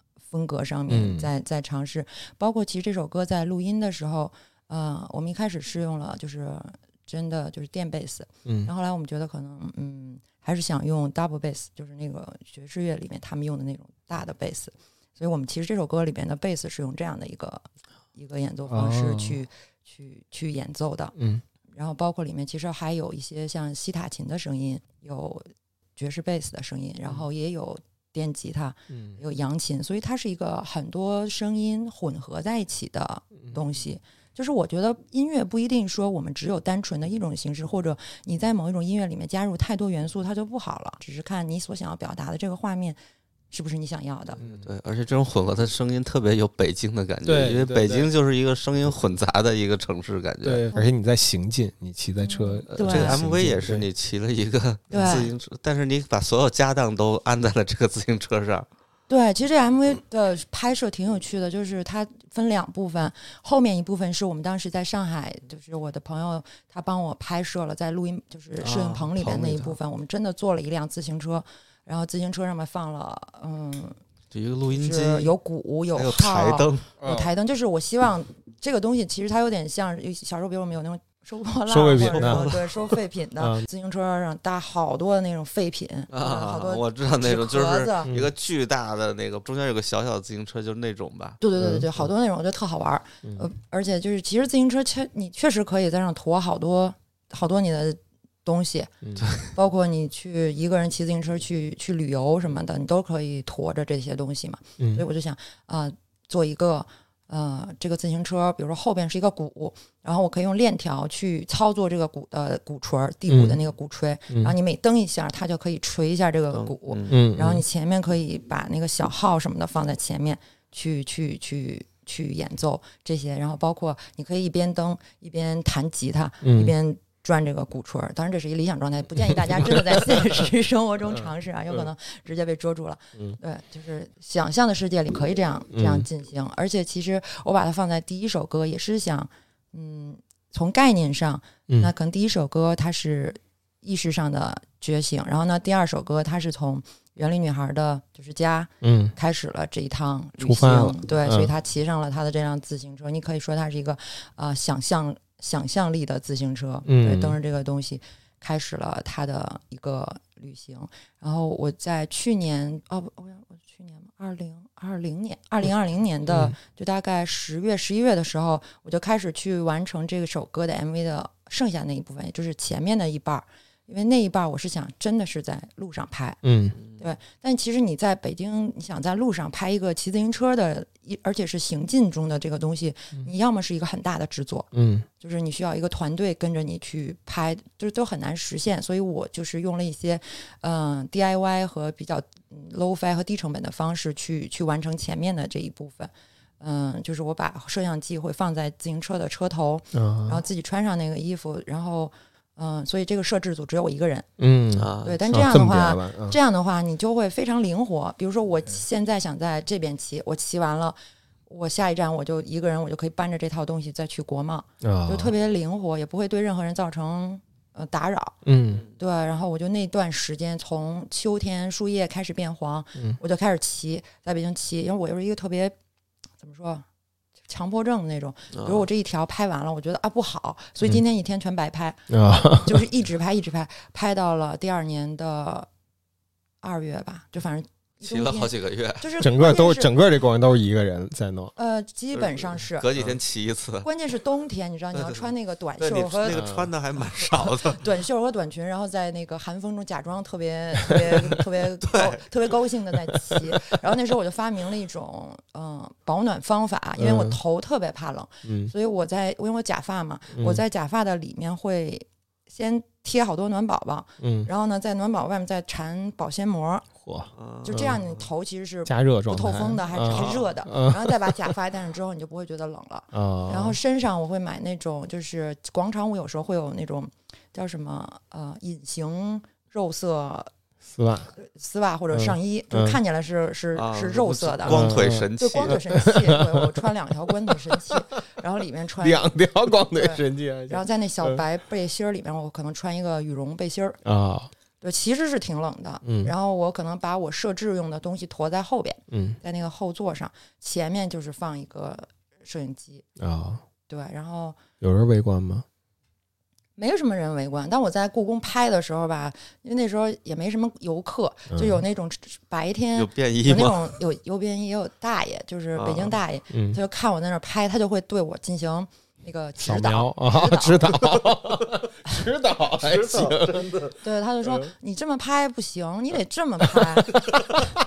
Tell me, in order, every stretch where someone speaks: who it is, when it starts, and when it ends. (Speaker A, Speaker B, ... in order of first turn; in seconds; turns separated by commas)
Speaker A: 0.3-21.1, Speaker B: 0.9-1.3, Speaker B: 18.7-19.4, Speaker B: 21.2-21.4, Speaker A: 21.7-43.0, Speaker B: 28.9-29.2, Speaker A: 43.5-44.4, Speaker B: 44.4-44.7, Speaker C: 44.4-50.6, Speaker B: 47.2-48.1, Speaker B: 50.4-53.9, Speaker A: 52.4-53.2, Speaker C: 52.7-58.7, Speaker A: 54.9-55.3, Speaker B: 54.9-55.2, Speaker A: 59.1-74.0, Speaker C: 68.6-69.8, Speaker C: 74.3-75.3, Speaker A: 74.7-88.1, Speaker C: 76.0-76.9, Speaker B: 77.0-77.3, Speaker B: 81.7-82.6, Speaker C: 82.0-82.6, Speaker B: 83.4-83.7, Speaker C: 86.1-91.4, Speaker B: 88.1-88.3, Speaker A: 91.4-98.9, Speaker B: 91.6-91.9, Speaker C: 99.2-99.5, Speaker A: 99.5-176.4, Speaker B: 104.8-105.0, Speaker B: 113.3-113.6, Speaker B: 114.3-114.5, Speaker C: 116.5-117.2, Speaker B: 117.1-117.6, Speaker B: 126.4-126.7, Speaker B: 129.2-130.2, Speaker B: 131.1-131.9, Speaker B: 135.7-136.1, Speaker B: 148.8-149.1, Speaker B: 150.4-151.5, Speaker B: 156.9-157.4, Speaker B: 166.3-166.6, Speaker B: 176.4-176.8, Speaker C: 176.8-177.0, Speaker A: 177.0-184.7, Speaker B: 184.7-185.1, Speaker A: 185.2-204.3, Speaker B: 199.9-200.4, Speaker B: 204.4-206.4, Speaker C: 204.7-205.2, Speaker A: 205.0-218.4, Speaker B: 214.8-215.3, Speaker B: 218.4-218.9, Speaker A: 219.0-225.8, Speaker A: 226.4-226.8, Speaker A: 227.5-235.7, Speaker C: 228.5-228.9, Speaker B: 232.1-232.8, Speaker A: 236.6-239.9, Speaker C: 238.0-239.1, Speaker B: 239.2-241.5, Speaker A: 241.6-242.9, Speaker C: 242.2-243.9, Speaker A: 243.8-246.4, Speaker C: 245.0-245.2, Speaker C: 245.8-247.9, Speaker B: 246.3-246.7, Speaker A: 247.1-266.9, Speaker C: 251.8-252.2, Speaker B: 257.0-257.4, Speaker B: 258.4-258.7, Speaker B: 260.3-260.6, Speaker B: 264.2-264.5, Speaker B: 267.0-268.0, Speaker C: 267.4-268.3, Speaker A: 267.6-280.5, Speaker B: 268.9-271.5, Speaker C: 270.0-270.4, Speaker B: 273.1-273.8, Speaker B: 280.8-281.4, Speaker A: 281.4-294.0, Speaker B: 282.1-283.0, Speaker C: 283.8-285.9, Speaker B: 284.7-286.8, Speaker B: 287.5-288.0, Speaker B: 289.0-291.4, Speaker B: 294.0-294.5, Speaker A: 294.8-303.1, Speaker B: 296.0-296.3, Speaker B: 299.1-299.4, Speaker B: 303.2-303.6, Speaker A: 303.9-304.6, Speaker B: 304.8-305.6, Speaker A: 306.8-321.1, Speaker B: 311.5-311.8, Speaker C: 312.9-313.9, Speaker C: 315.8-316.2, Speaker B: 316.5-316.8, Speaker B: 319.6-323.9, Speaker C: 322.7-324.0, Speaker A: 324.0-327.4, Speaker B: 324.4-324.7, Speaker C: 327.3-327.6